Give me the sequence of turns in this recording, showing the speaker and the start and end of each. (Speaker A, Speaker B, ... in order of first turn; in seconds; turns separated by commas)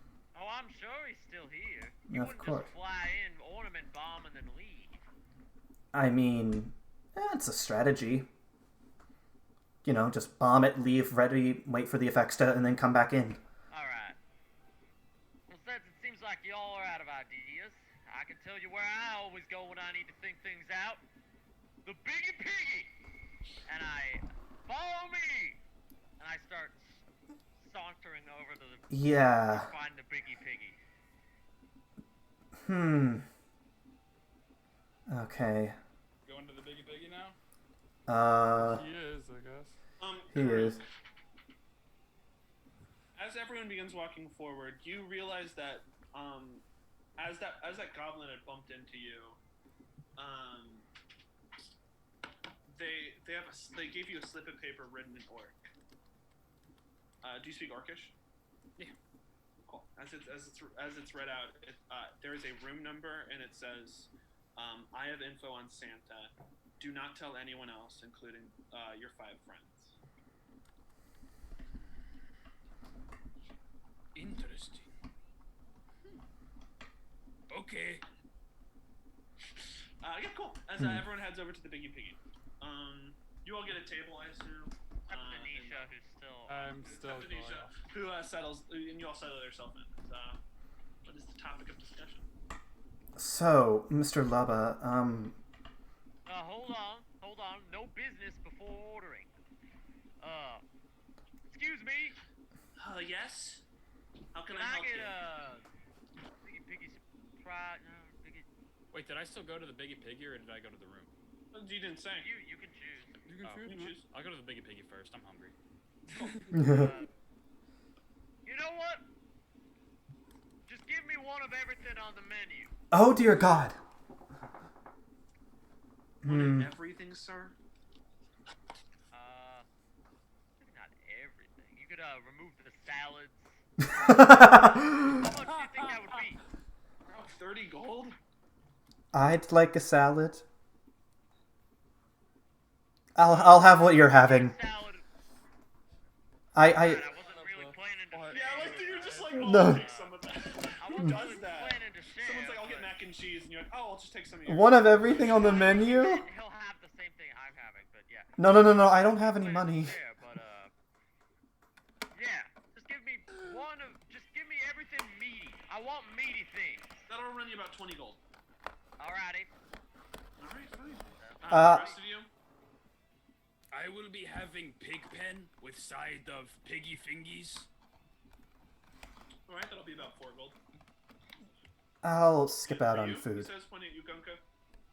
Speaker A: 0.3-5.0, Speaker B: 2.1-2.7, Speaker B: 5.9-8.3, Speaker B: 9.8-13.4, Speaker A: 13.7-14.2, Speaker A: 15.5-21.0, Speaker A: 21.8-22.9, Speaker A: 23.6-25.6, Speaker A: 26.2-30.8, Speaker B: 28.9-29.7, Speaker B: 32.6-33.2, Speaker B: 35.1-35.8, Speaker C: 36.2-37.4, Speaker B: 38.1-38.8, Speaker D: 38.7-39.7, Speaker E: 40.0-40.8, Speaker B: 40.3-40.8, Speaker E: 43.1-46.6, Speaker E: 47.2-49.4, Speaker E: 50.1-50.9, Speaker E: 52.7-55.6, Speaker E: 57.2-58.1, Speaker E: 59.6-69.9, Speaker C: 74.1-75.0, Speaker C: 77.5-78.0, Speaker E: 79.5-85.9, Speaker A: 85.1-86.9, Speaker D: 86.5-87.7, Speaker E: 86.8-90.4, Speaker E: 91.0-92.3, Speaker B: 93.2-95.4, Speaker A: 96.2-99.3, Speaker A: 100.2-100.6, Speaker A: 101.5-102.2, Speaker E: 102.8-103.6, Speaker E: 104.3-105.2, Speaker A: 104.5-105.7, Speaker A: 106.4-108.5, Speaker C: 108.9-111.1, Speaker E: 111.5-112.3, Speaker A: 112.2-113.1, Speaker C: 113.3-115.5, Speaker D: 113.4-113.9, Speaker E: 113.6-114.0, Speaker B: 116.5-116.9, Speaker A: 116.5-117.1, Speaker A: 118.4-119.0, Speaker A: 120.7-122.7, Speaker B: 122.9-123.8, Speaker B: 126.2-126.7, Speaker E: 126.2-127.5, Speaker A: 129.1-129.7, Speaker A: 130.6-136.4, Speaker B: 134.0-135.2, Speaker E: 137.1-138.2, Speaker B: 139.1-140.4, Speaker B: 143.2-144.6, Speaker A: 143.2-145.0, Speaker B: 146.5-147.1, Speaker A: 146.6-150.2, Speaker D: 147.2-148.4, Speaker E: 148.3-155.7, Speaker D: 148.9-149.4, Speaker B: 149.4-149.9, Speaker A: 150.8-152.9, Speaker B: 151.0-151.3, Speaker B: 154.4-156.2, Speaker A: 155.3-158.4, Speaker B: 158.4-159.9, Speaker A: 159.0-160.7, Speaker A: 162.1-167.1, Speaker E: 167.1-168.2, Speaker A: 169.0-169.5, Speaker E: 170.4-172.3, Speaker A: 171.2-172.0, Speaker B: 171.5-171.9, Speaker C: 173.7-177.7, Speaker E: 179.4-180.6, Speaker B: 182.0-183.5, Speaker E: 182.6-184.4